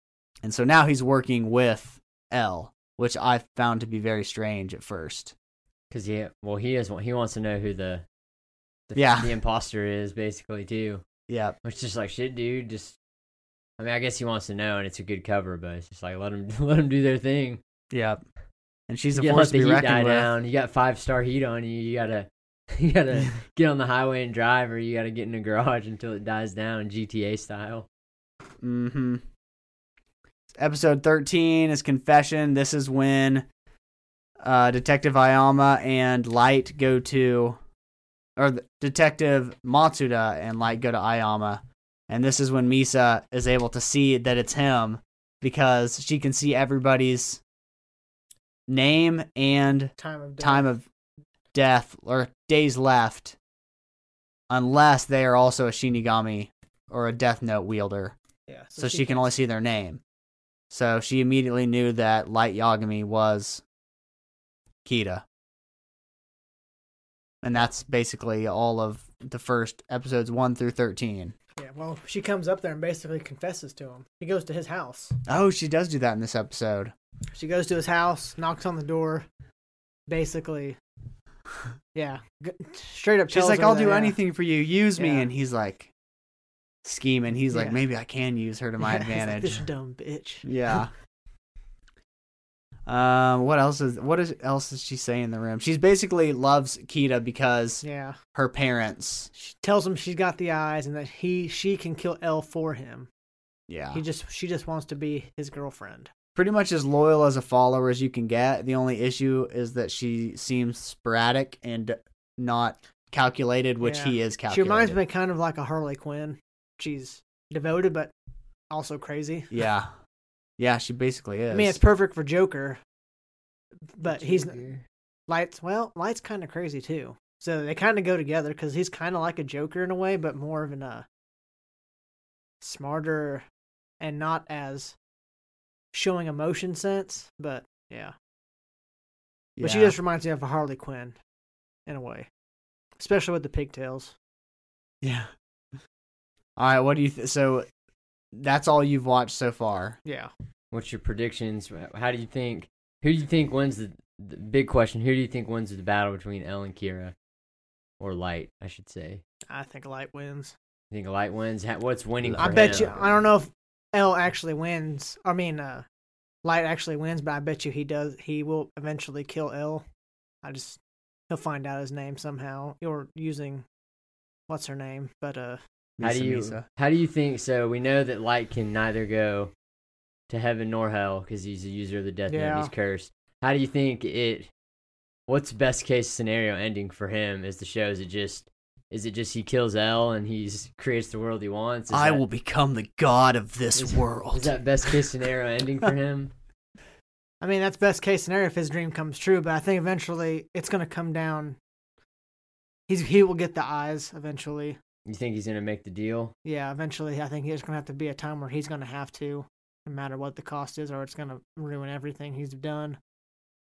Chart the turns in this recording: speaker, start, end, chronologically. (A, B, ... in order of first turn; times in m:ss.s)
0:00.4-0:05.4 A
0:05.9-0:08.0 B
0:08.9-0:11.0 B
0:09.0-0:09.3 A
0:11.3-0:11.6 A
0:11.6-0:13.0 B
0:13.8-0:17.6 B
0:17.9-0:18.2 A
0:18.9-0:20.3 A
0:19.1-0:27.9 B
0:28.6-0:29.2 A
0:30.6-0:33.5 A
0:34.4-0:37.6 A
0:38.4-0:47.4 A
0:48.7-0:50.9 A
0:50.0-0:50.7 C
0:51.5-0:53.4 A
0:54.5-0:58.2 A
0:58.5-0:59.3 C
0:58.8-1:00.0 A
1:00.7-1:03.6 A
1:04.8-1:05.2 A
1:07.4-1:11.4 A
1:11.6-1:15.2 C
1:15.3-1:16.9 A
1:17.3-1:19.3 C
1:20.1-1:20.8 C
1:22.0-1:24.2 C
1:23.3-1:25.9 A
1:25.0-1:25.3 C
1:26.8-1:29.6 A
1:27.5-1:27.8 C
1:28.8-1:30.5 C
1:30.4-1:30.9 A
1:32.9-1:37.8 A
1:37.8-1:38.2 C
1:38.3-1:39.3 A
1:39.4-1:43.1 C
1:43.7-1:44.0 A
1:43.9-1:46.1 C
1:46.4-1:55.0 A
1:53.8-1:58.1 C
1:58.7-1:59.5 C
1:59.5-1:59.9 A
2:00.6-2:01.8 A
2:01.5-2:02.8 C
2:04.0-2:04.6 C
2:04.1-2:04.8 B
2:05.3-2:11.1 C
2:12.6-2:13.5 C
2:14.0-2:15.0 C
2:15.9-2:18.1 C
2:19.6-2:20.0 A
2:19.6-2:21.2 C
2:21.9-2:22.3 C
2:23.0-2:24.2 C
2:25.0-2:25.3 A
2:26.6-2:27.7 A
2:28.3-2:30.0 A
2:30.0-2:30.3 C
2:30.7-2:37.1 B
2:38.0-2:39.2 B
2:39.5-2:40.5 C
2:40.9-2:42.9 B
2:42.3-2:42.9 A
2:42.4-2:45.8 C
2:46.4-2:49.8 C
2:50.4-2:53.6 C
2:54.5-2:55.6 C
2:56.0-2:56.6 A
2:56.0-2:59.5 B
3:00.3-3:04.5 B
3:02.3-3:02.7 C
3:05.3-3:12.2 B
3:11.9-3:14.5 A
3:13.8-3:16.3 B
3:17.4-3:21.6 C
3:22.9-3:24.8 C
3:25.1-3:26.3 B
3:26.4-3:33.0 C